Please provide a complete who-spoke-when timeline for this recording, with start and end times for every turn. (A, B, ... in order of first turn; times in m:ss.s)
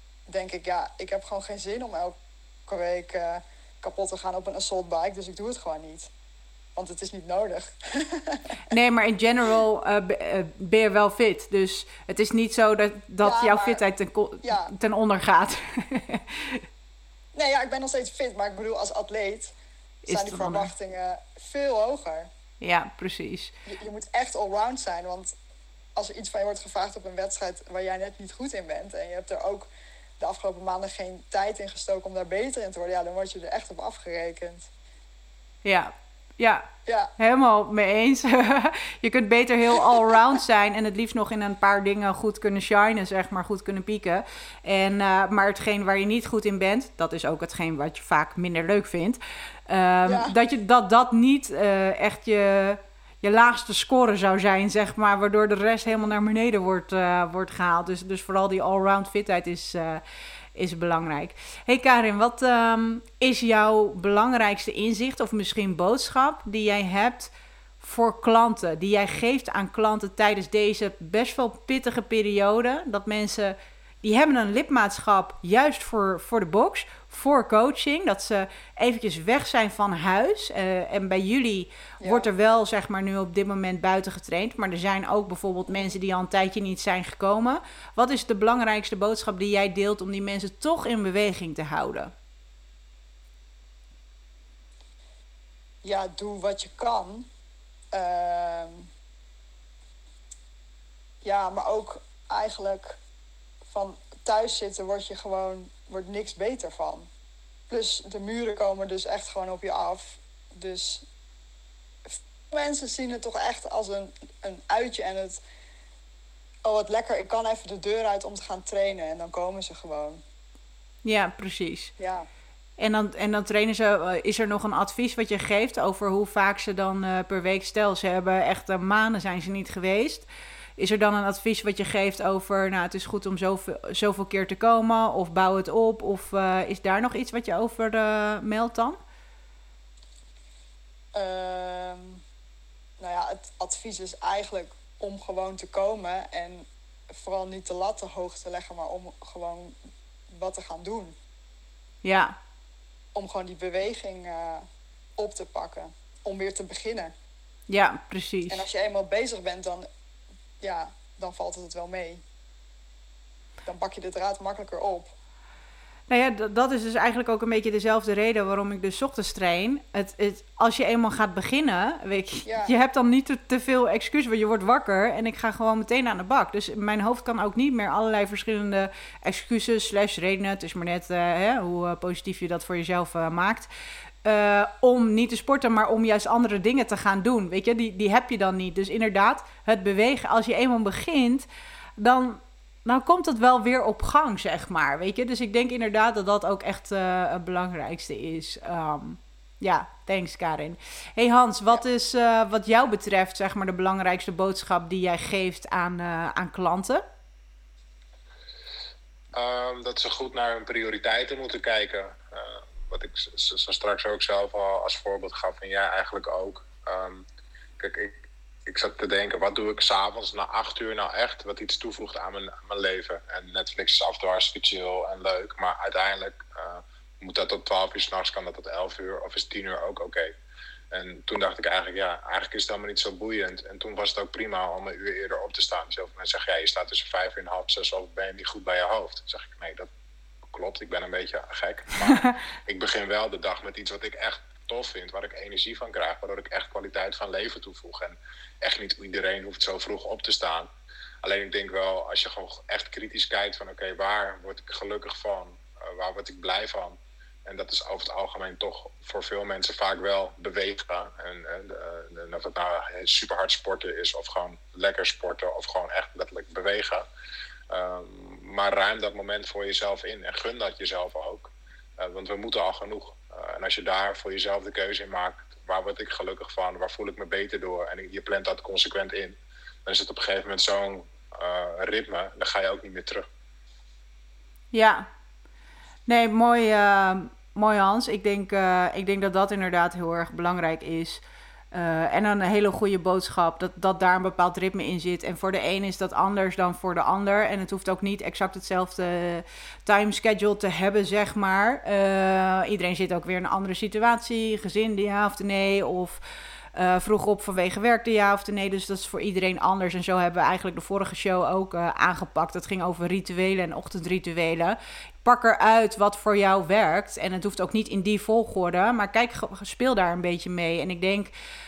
0:00.3-0:02.2 A
0:02.7-0:06.1 A
0:06.8-0:08.7 A
0:08.7-0:16.6 B
0:13.2-0:13.8 A
0:14.4-0:14.7 A
0:17.3-0:19.5 A
0:20.0-0:20.7 B
0:20.1-0:22.3 A
0:22.6-0:23.5 B
0:23.6-0:25.3 A
0:26.0-0:29.7 A
0:30.2-0:34.7 A
0:35.6-1:00.0 B
0:36.8-0:37.1 A
0:50.0-0:50.3 A
1:00.5-1:32.1 B
1:22.0-1:22.3 A
1:35.8-1:37.3 A
1:37.9-1:38.9 A
1:41.2-1:43.0 A
1:43.7-1:47.1 A
1:47.7-1:51.0 A
1:52.1-1:55.4 A
1:56.6-2:00.2 A
2:01.0-2:01.9 B
2:02.0-2:02.3 A
2:02.8-2:10.2 B
2:10.8-2:19.0 B
2:21.1-2:22.2 A
2:23.0-2:29.8 A
2:30.3-2:31.2 A
2:32.0-2:32.4 B
2:33.1-2:37.1 A
2:37.7-2:38.6 B
2:38.5-2:39.9 A
2:40.6-2:42.2 A
2:43.6-2:45.1 A
2:46.1-3:03.7 B
2:52.4-2:52.7 A
3:04.2-3:11.4 B
3:12.0-3:27.0 B
3:29.3-3:37.2 C
3:37.8-3:50.3 C
3:50.9-3:59.9 C
4:00.5-4:10.7 C
4:11.2-4:27.0 C
4:27.7-4:43.3 C
4:44.7-4:45.1 B
4:46.1-4:51.2 B
4:51.7-5:06.2 B
5:06.7-5:21.3 B